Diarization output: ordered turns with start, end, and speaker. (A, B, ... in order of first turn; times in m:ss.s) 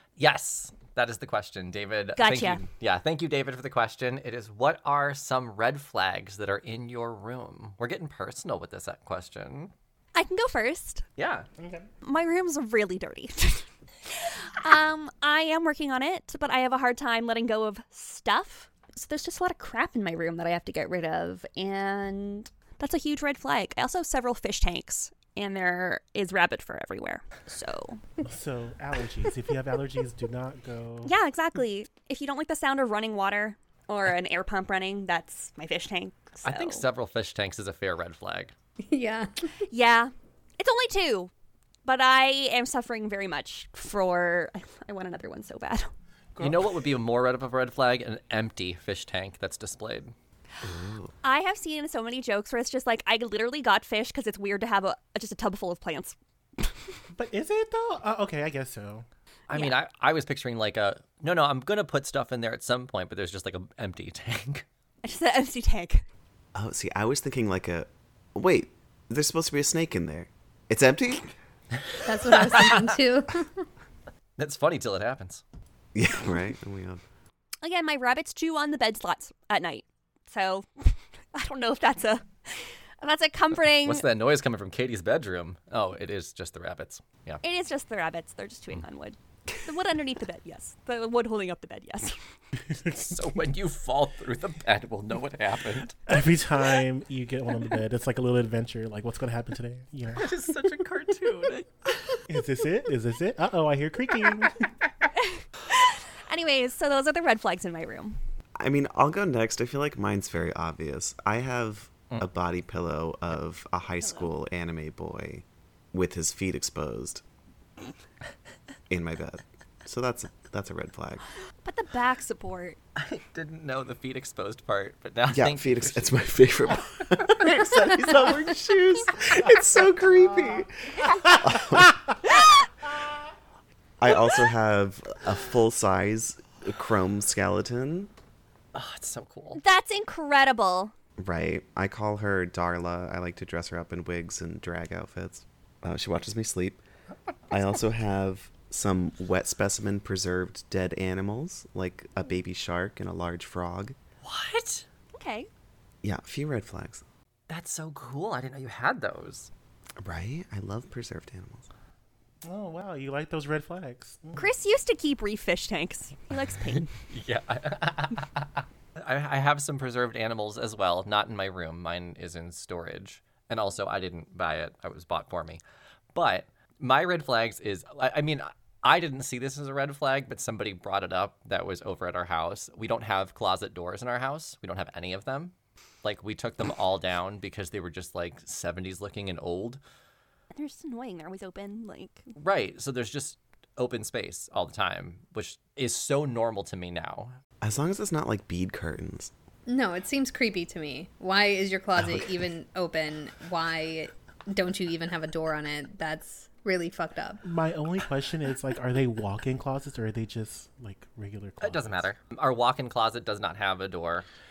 0:00.2-0:09.7 A
0:02.2-0:02.6 B
0:10.2-0:11.0 B
0:11.2-0:11.5 A
0:11.6-0:11.9 C
0:12.0-0:28.0 B
0:28.2-0:31.1 C
0:31.0-0:36.8 B
0:36.4-0:38.5 A
0:38.9-0:39.5 D
0:39.7-0:41.3 B
0:41.8-0:45.9 B
0:46.4-0:46.7 C
0:46.4-0:50.1 A
0:50.6-0:51.1 E
0:51.2-0:56.8 B
0:57.1-0:59.1 C
0:59.5-1:04.7 A
1:05.0-1:06.0 B
1:06.6-1:11.3 E
1:11.9-1:12.9 A
1:12.0-1:13.7 D
1:14.4-1:15.4 A
1:16.0-1:17.0 E
1:17.6-1:24.0 B
1:23.8-1:27.4 A
1:27.4-1:32.2 B
1:32.8-1:33.1 C
1:32.8-1:36.0 A
1:36.1-1:40.3 C
1:40.1-1:41.9 A
1:42.3-1:44.5 C
1:45.2-1:48.2 B
1:48.6-1:57.2 E
1:58.9-2:01.2 E
2:01.6-2:02.8 B
2:03.0-2:06.2 A
2:05.3-2:12.1 E
2:07.3-2:08.4 C
2:11.3-2:11.9 C
2:14.0-2:18.1 E
2:18.7-2:19.6 A
2:19.6-2:20.9 B
2:21.2-2:26.8 E
2:27.5-2:34.0 E
2:34.2-2:34.9 A
2:35.1-2:35.5 B
2:36.0-2:37.0 E
2:37.5-2:39.5 A
2:40.0-2:41.7 E
2:42.4-2:44.5 C
2:44.4-2:46.9 B
2:47.1-2:55.6 A
2:56.2-3:05.5 A
3:06.0-3:09.8 A
3:10.5-3:12.3 B
3:12.4-3:17.4 A
3:17.6-3:19.3 E
3:19.7-3:27.4 D
3:27.4-3:32.1 C
3:31.6-3:34.3 A